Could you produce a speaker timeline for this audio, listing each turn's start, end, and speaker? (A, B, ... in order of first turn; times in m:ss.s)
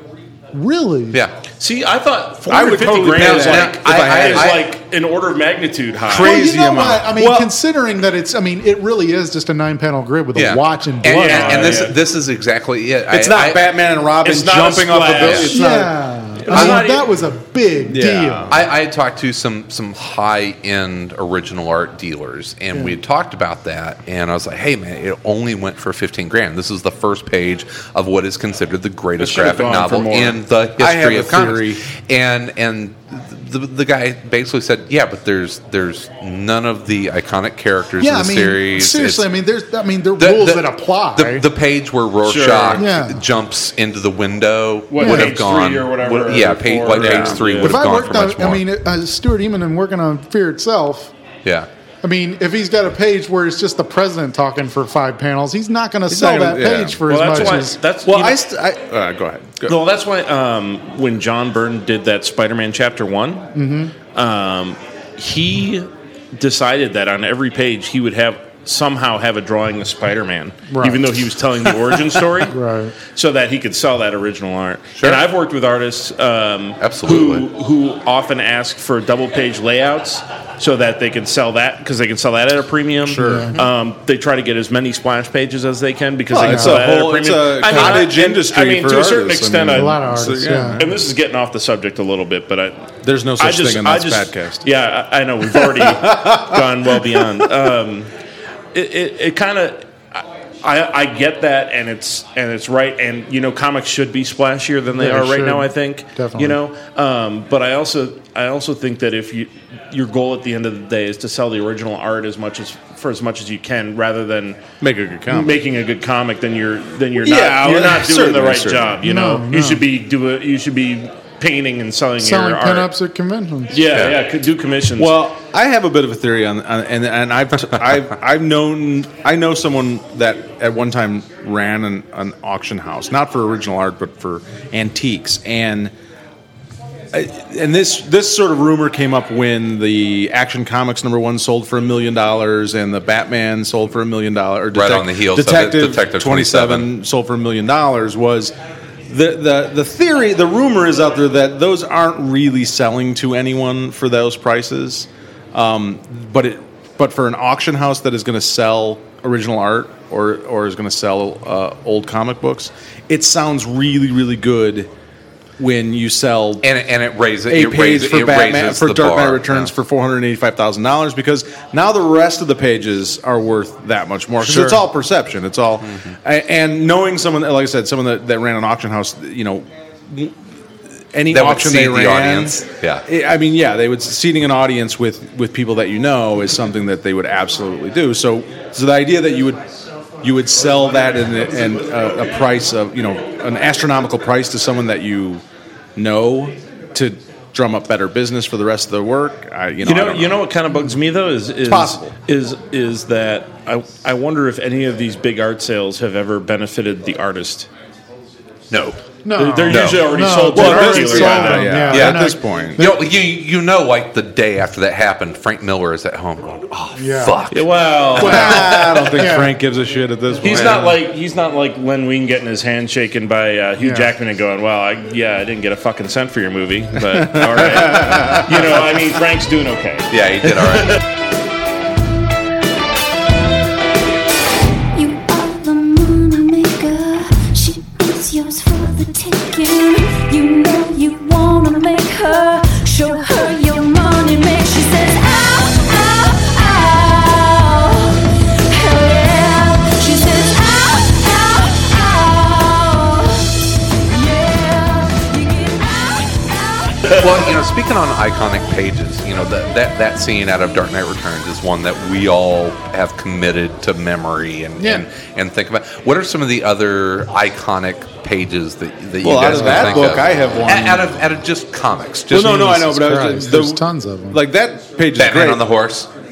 0:00.5-0:01.2 A
0:01.6-0:06.4 B
0:02.5-0:04.5 C
0:03.1-0:04.7 D
0:06.1-0:07.5 C
0:06.1-0:11.8 A
0:10.3-0:13.7 D
0:11.0-0:12.0 B
0:13.1-0:15.9 C
0:14.2-0:15.6 B
0:15.2-0:15.5 D
0:15.5-0:18.6 A
0:16.4-0:17.1 B
0:16.5-0:16.8 D
0:17.9-0:18.6 C
0:18.5-0:39.3 D
0:29.2-0:30.4 B
0:30.8-0:31.8 C
0:38.0-0:41.4 A
0:40.2-0:48.6 D
0:42.2-0:42.8 B
0:42.8-0:43.2 A
0:44.9-0:47.8 B
0:45.0-0:45.4 A
0:47.0-0:47.5 C
0:47.6-0:51.1 A
0:51.4-0:51.7 D
0:52.0-0:57.8 A
0:56.1-0:59.7 C
0:57.1-0:58.4 B
0:59.6-1:03.5 B
1:03.5-1:03.9 A
1:04.1-1:12.5 B
1:10.7-1:11.0 A
1:12.5-1:12.9 A
1:13.1-1:30.0 B
1:15.0-1:15.2 D
1:16.8-1:17.4 D
1:23.0-1:23.5 C
1:23.2-1:23.6 A
1:26.3-1:31.1 C
1:26.5-1:26.8 A
1:27.7-1:28.1 A
1:29.7-1:30.8 A
1:30.8-1:32.8 B
1:33.0-1:34.6 C
1:33.4-1:38.1 B
1:35.5-1:36.6 C
1:38.7-1:54.6 B
1:45.0-1:46.6 A
1:54.8-1:55.6 C
1:55.3-2:02.9 B
1:57.2-1:58.9 C
1:59.0-1:59.8 A
2:02.2-2:03.8 A
2:03.7-2:05.2 B
2:03.9-2:04.2 D
2:05.0-2:15.9 C
2:07.7-2:08.0 D
2:17.1-2:28.5 C
2:24.7-2:26.9 D
2:29.1-2:44.9 C
2:45.6-2:46.6 C
2:46.6-2:49.7 D
2:47.5-3:00.3 C
2:54.4-2:54.8 D
2:55.8-2:56.1 D
3:01.1-3:09.6 C
3:01.3-3:03.0 D
3:10.2-3:15.4 C
3:16.0-3:20.4 C
3:19.8-3:27.7 B
3:21.7-3:22.1 C
3:28.7-3:29.0 D
3:29.2-3:33.0 A
3:29.4-3:31.9 B
3:29.7-3:30.1 D
3:30.5-3:32.8 C
3:31.9-3:38.2 D
3:37.0-3:37.4 A
3:37.5-3:38.8 B
3:38.2-3:39.5 A
3:38.2-3:40.9 C
3:40.4-3:51.0 B
3:43.8-3:44.1 A
3:47.2-3:48.7 C
3:50.1-3:51.0 D
3:54.9-4:13.5 E
4:14.0-4:17.1 E
4:17.1-4:32.8 D
4:24.8-4:25.0 A
4:29.2-4:31.1 C
4:29.5-4:30.0 A
4:32.3-4:35.6 C
4:32.8-4:34.4 A
4:35.1-4:36.1 D